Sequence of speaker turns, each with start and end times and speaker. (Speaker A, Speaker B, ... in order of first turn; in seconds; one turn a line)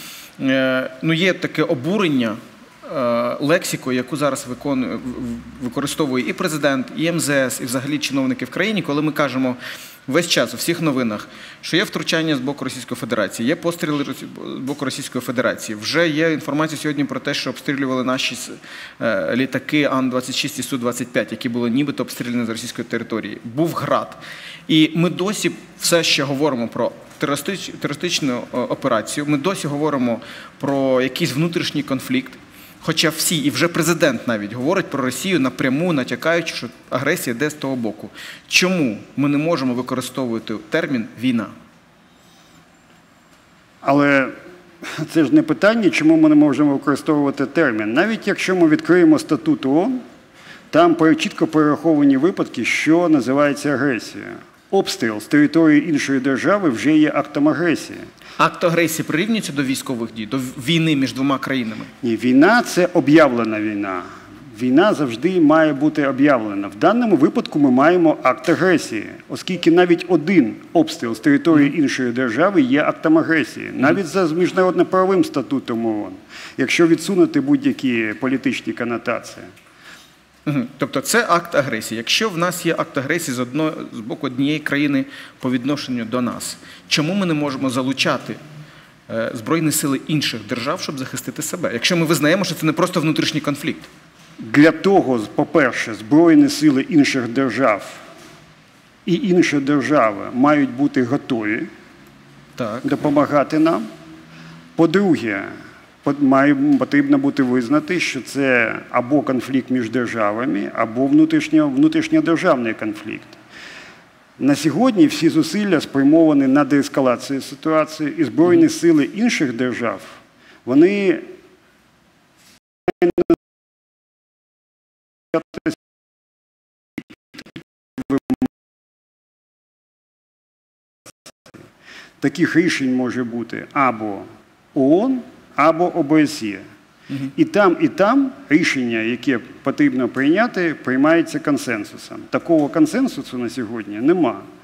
Speaker A: 0.4-41.5
Speaker B: 43.8-44.3
Speaker B: 44.8-50.0
Speaker B: 50.7-58.0
Speaker A: 58.4-61.9
Speaker B: 62.0-79.5
Speaker A: 80.5-88.4
Speaker A: 89.1-93.9
Speaker B: 94.4-98.0
Speaker B: 99.0-101.7
Speaker A: 102.6-102.9
Speaker B: 102.8-103.8
Speaker B: 104.8-105.5
Speaker B: 106.0-113.4
Speaker B: 114.4-121.2
Speaker B: 123.0-123.3
Speaker B: 125.3-125.7
Speaker B: 132.2-136.6
Speaker B: 137.2-144.4